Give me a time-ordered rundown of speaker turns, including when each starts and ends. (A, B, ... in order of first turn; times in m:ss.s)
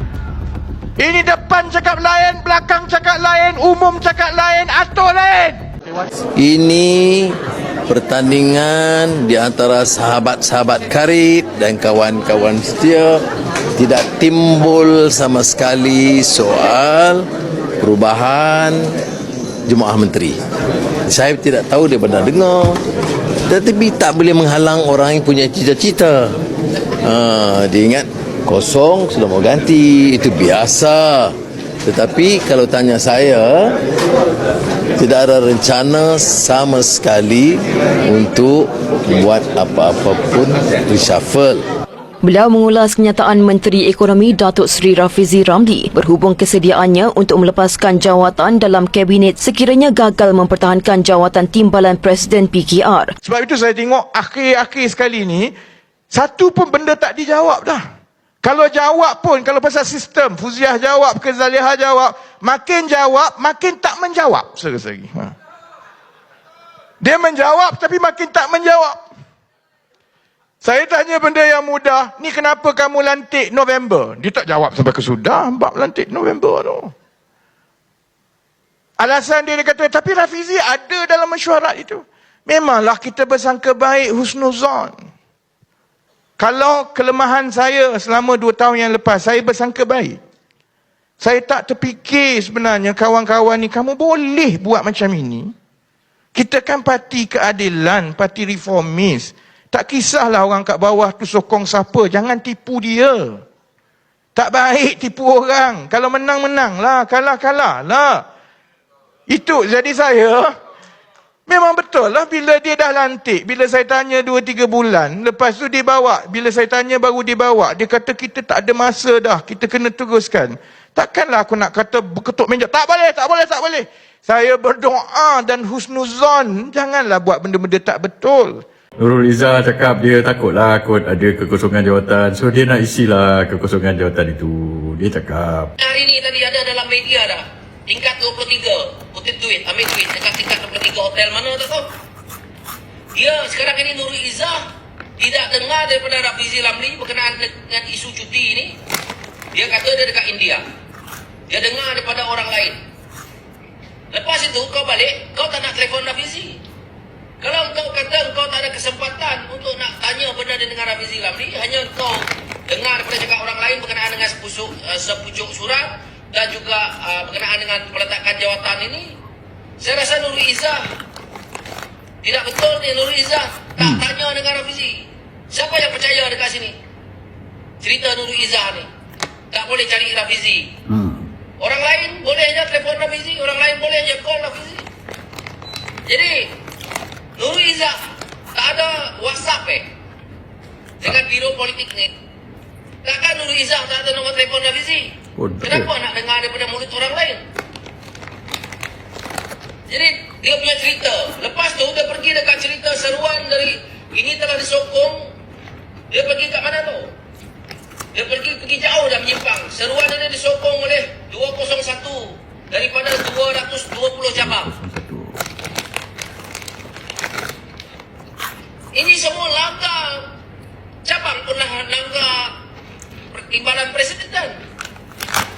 0:01.0-0:05.6 A
0:06.4-0:13.2 B
0:13.8-0:17.3 B
0:17.8-0:19.0 B
0:19.7-0:20.4 B
0:21.1-0:22.8 B
0:23.5-0:26.4 B
0:27.0-0:33.8 B
0:35.0-0:41.6 B
0:42.2-0:53.1 C
0:53.2-0:55.5 A
0:56.1-0:57.8 A
0:58.4-1:05.3 A
1:07.0-1:09.0 A
1:10.6-1:16.9 A
1:19.0-1:25.0 A
1:26.4-1:30.2 A
1:31.2-1:35.5 A
1:36.4-1:43.4 A
1:44.4-1:48.2 A
1:49.3-1:50.5 A
1:51.5-2:08.6 A
2:09.0-2:15.7 D
2:15.8-2:21.9 E
2:23.2-2:24.6 E
2:25.2-2:28.8 E
2:29.5-2:30.6 E
2:31.5-2:32.8 E
2:34.1-2:36.6 E
2:37.4-2:49.1 E
2:49.8-2:50.8 E
2:52.2-2:56.8 E
2:57.8-2:58.9 E
2:59.5-3:00.6 E
3:01.6-3:04.8 E
3:06.1-3:06.5 E
3:07.4-3:08.0 E
3:08.5-3:09.8 E
3:11.0-3:12.1 E
3:13.0-3:15.1 E
3:15.4-3:15.9 D
3:15.6-3:17.4 E
3:19.9-3:25.2 E
3:26.1-3:27.1 E
3:28.1-3:34.7 E
3:34.6-3:35.3 D
3:38.9-3:40.2 E
3:41.0-3:42.5 E
3:43.3-3:44.5 E